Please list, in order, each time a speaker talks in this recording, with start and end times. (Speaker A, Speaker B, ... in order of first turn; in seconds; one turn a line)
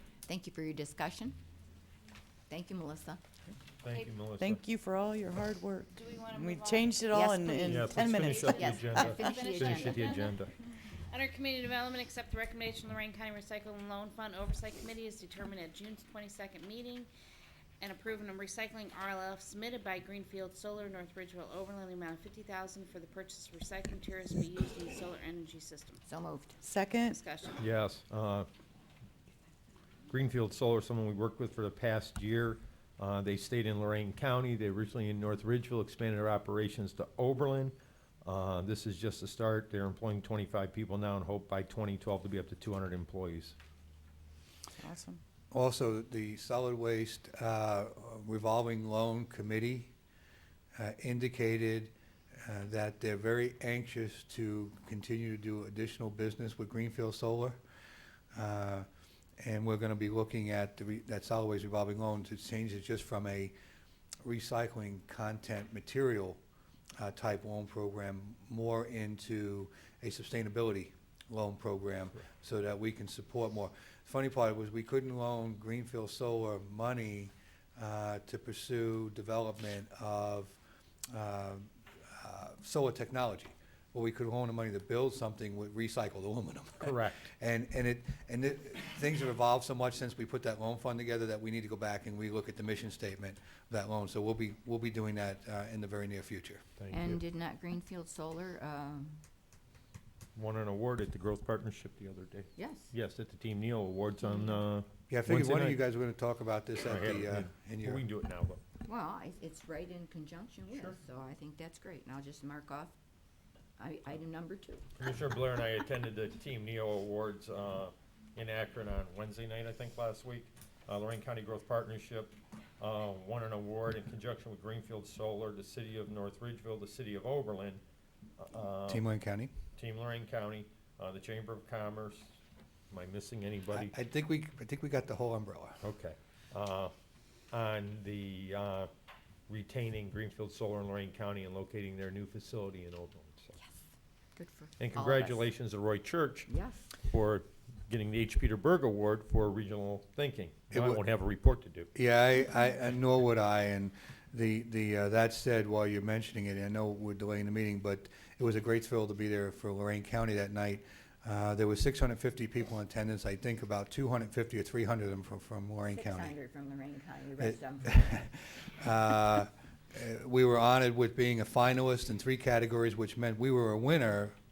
Speaker A: 0.3-1.4
Speaker A: 2.5-3.2
Speaker B: 3.8-4.6
Speaker C: 3.9-4.2
Speaker D: 4.4-9.1
Speaker C: 6.0-10.4
Speaker A: 7.1-7.9
Speaker B: 7.6-10.5
Speaker A: 8.5-10.2
Speaker C: 11.1-17.1
Speaker C: 17.8-26.0
Speaker A: 26.1-26.6
Speaker D: 26.6-27.2
Speaker C: 27.1-27.6
Speaker B: 27.6-28.5
Speaker B: 30.1-43.5
Speaker D: 44.8-45.2
Speaker E: 45.5-49.9
Speaker E: 50.8-57.6
Speaker E: 58.4-58.9
Speaker E: 59.4-63.5
Speaker E: 64.2-66.4
Speaker E: 67.0-96.6
Speaker B: 86.8-87.3
Speaker B: 96.8-97.2
Speaker A: 96.9-99.2
Speaker B: 100.3-105.8
Speaker A: 102.6-102.9
Speaker A: 104.2-104.6
Speaker E: 105.1-108.1
Speaker B: 106.8-108.6
Speaker A: 108.8-113.0
Speaker B: 110.7-111.0
Speaker A: 113.8-114.9
Speaker B: 115.0-127.8
Speaker B: 128.4-129.1
Speaker E: 128.9-129.5
Speaker B: 129.8-132.3
Speaker B: 132.9-133.9
Speaker E: 133.7-135.8
Speaker B: 135.8-136.9
Speaker B: 137.5-138.9
Speaker B: 139.5-143.6
Speaker A: 144.3-145.4
Speaker B: 144.8-151.9
Speaker A: 146.5-146.9
Speaker E: 150.7-151.0
Speaker E: 151.9-166.4
Speaker A: 165.9-168.0
Speaker E: 167.4-174.4